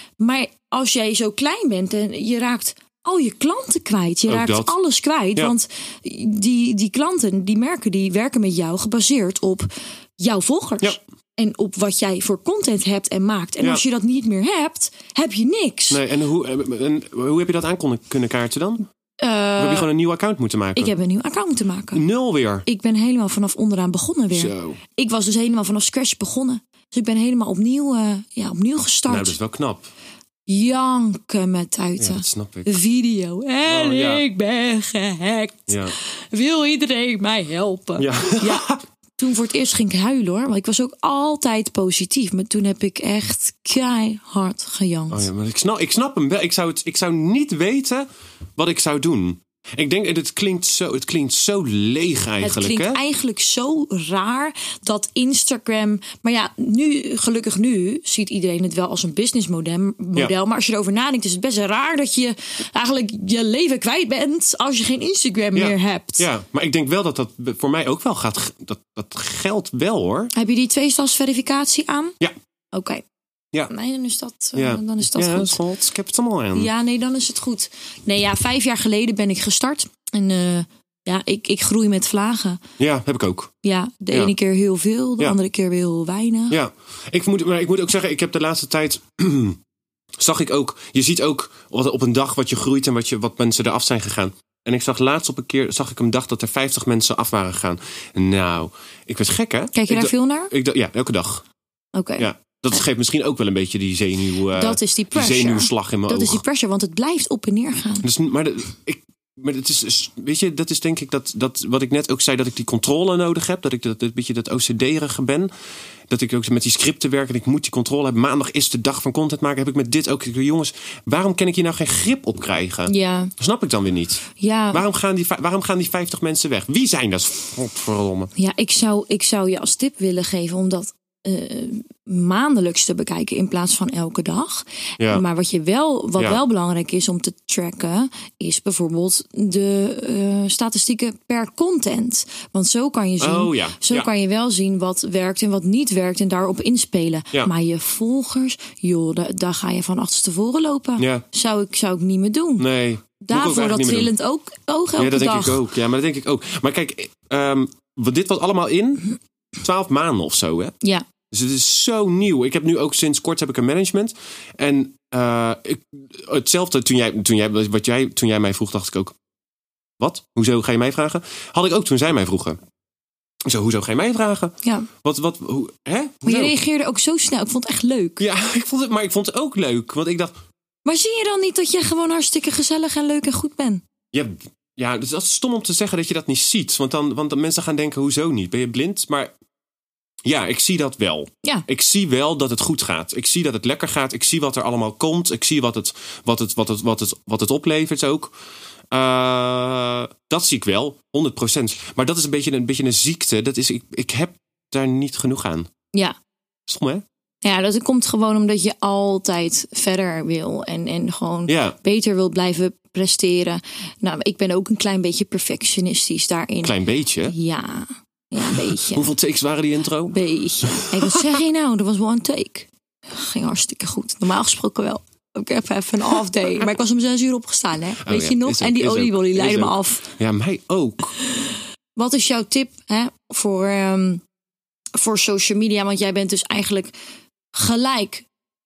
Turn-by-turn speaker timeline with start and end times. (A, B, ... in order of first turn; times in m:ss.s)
0:00.2-0:16.0 A
0:04.3-0:04.7 B
0:15.9-0:18.8 B
0:19.2-0:19.9 A
0:19.6-0:20.9 B
0:20.8-0:22.0 A
0:21.9-0:22.6 B
0:22.6-0:29.4 A
0:24.3-0:24.8 B
0:29.1-0:29.9 B
0:30.5-0:45.3 A
0:32.0-0:32.7 B
0:33.6-0:34.2 B
0:35.7-0:35.9 B
0:38.0-0:38.8 B
0:45.1-0:53.0 B
0:52.4-1:06.3 A
1:05.5-1:10.3 B
1:10.3-1:12.2 A
1:12.7-1:13.0 A
1:13.7-1:15.6 A
1:14.6-1:16.7 B
1:16.5-1:22.6 A
1:22.8-1:23.5 B
1:23.6-1:26.6 A
1:26.5-1:29.6 B
1:30.2-1:41.4 B
1:39.7-1:40.5 A
1:41.9-1:42.3 A
1:42.2-1:46.4 B
1:44.5-1:48.1 A
1:48.0-1:55.5 B
1:56.1-2:08.3 B
2:02.9-2:03.3 A
2:04.4-2:04.8 A
2:08.4-2:32.7 A
2:15.0-2:15.2 B
2:23.2-2:24.1 B
2:31.0-2:31.2 B
2:32.6-2:34.1 B
2:33.2-2:35.6 A
2:35.0-2:39.1 B
2:39.6-2:40.8 B
2:41.3-2:49.2 B
2:50.0-2:52.6 B
2:53.4-2:56.5 B
2:54.6-2:54.9 A
2:56.2-2:58.2 A
2:58.2-3:00.3 B
3:00.8-3:03.8 A
3:04.1-3:09.3 B
3:10.2-3:18.3 B
3:18.9-3:25.7 B
3:26.6-3:27.0 B
3:27.4-3:36.7 A
3:31.5-3:31.8 B
3:36.6-3:37.3 B
3:37.3-3:39.1 A
3:38.5-3:41.4 B
3:40.1-3:50.1 A
3:48.0-3:51.1 B
3:51.2-3:54.2 A
3:55.0-3:56.9 A
3:57.5-3:58.2 A